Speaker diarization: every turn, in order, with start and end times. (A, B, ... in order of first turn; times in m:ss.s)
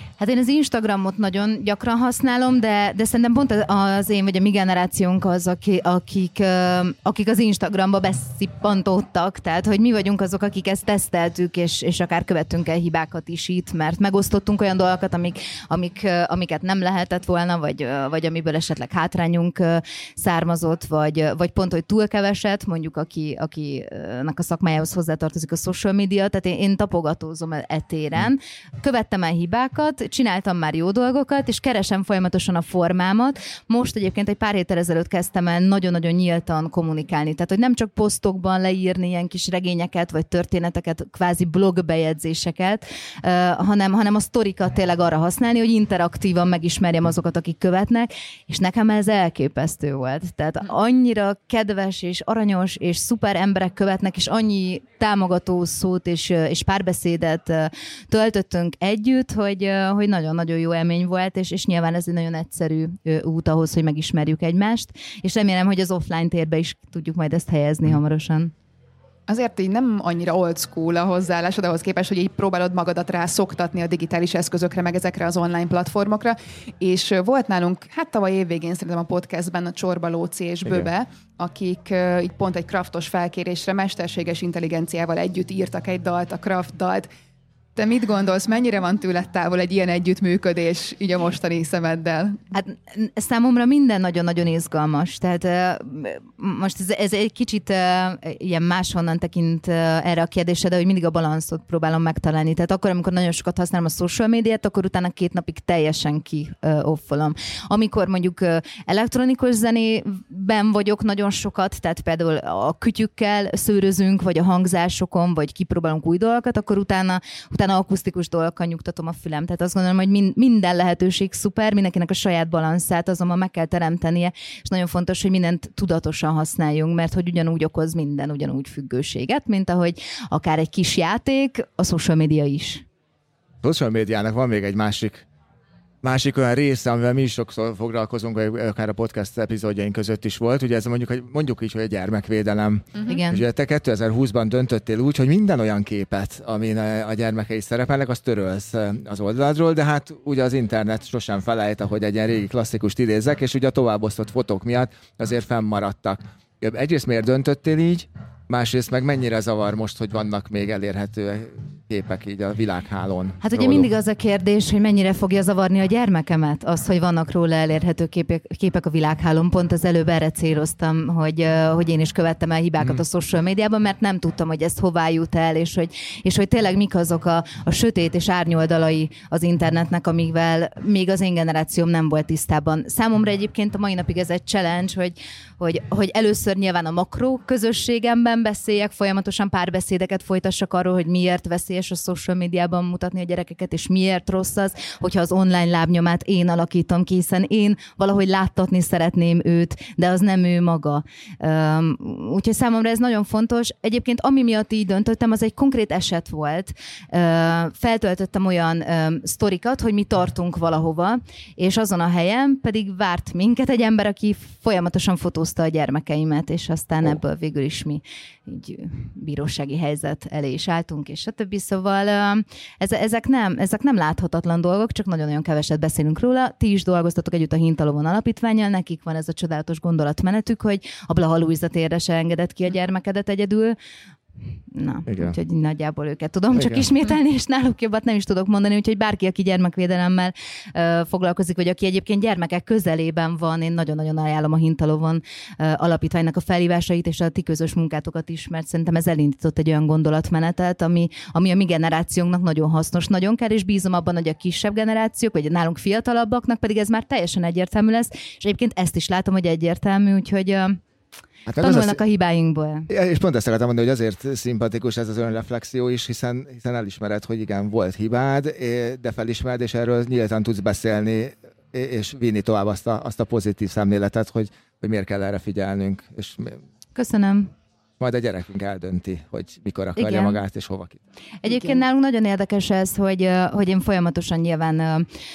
0:00.2-1:08.5 A
1:09.3-1:27.1 B
1:27.8-1:32.4 B
1:32.5-2:12.8 A
2:13.6-2:15.3 C
2:16.0-2:43.9 C
2:23.1-2:23.4 A
2:43.4-3:53.8 A
3:54.7-4:20.8 A
3:55.1-3:55.4 C
3:56.6-3:56.8 C
4:21.5-4:22.0 C
4:21.6-4:22.9 A
4:22.9-4:36.6 C
4:37.0-4:37.5 A
4:38.0-4:41.0 C
4:40.0-4:40.4 A
4:41.4-4:45.1 A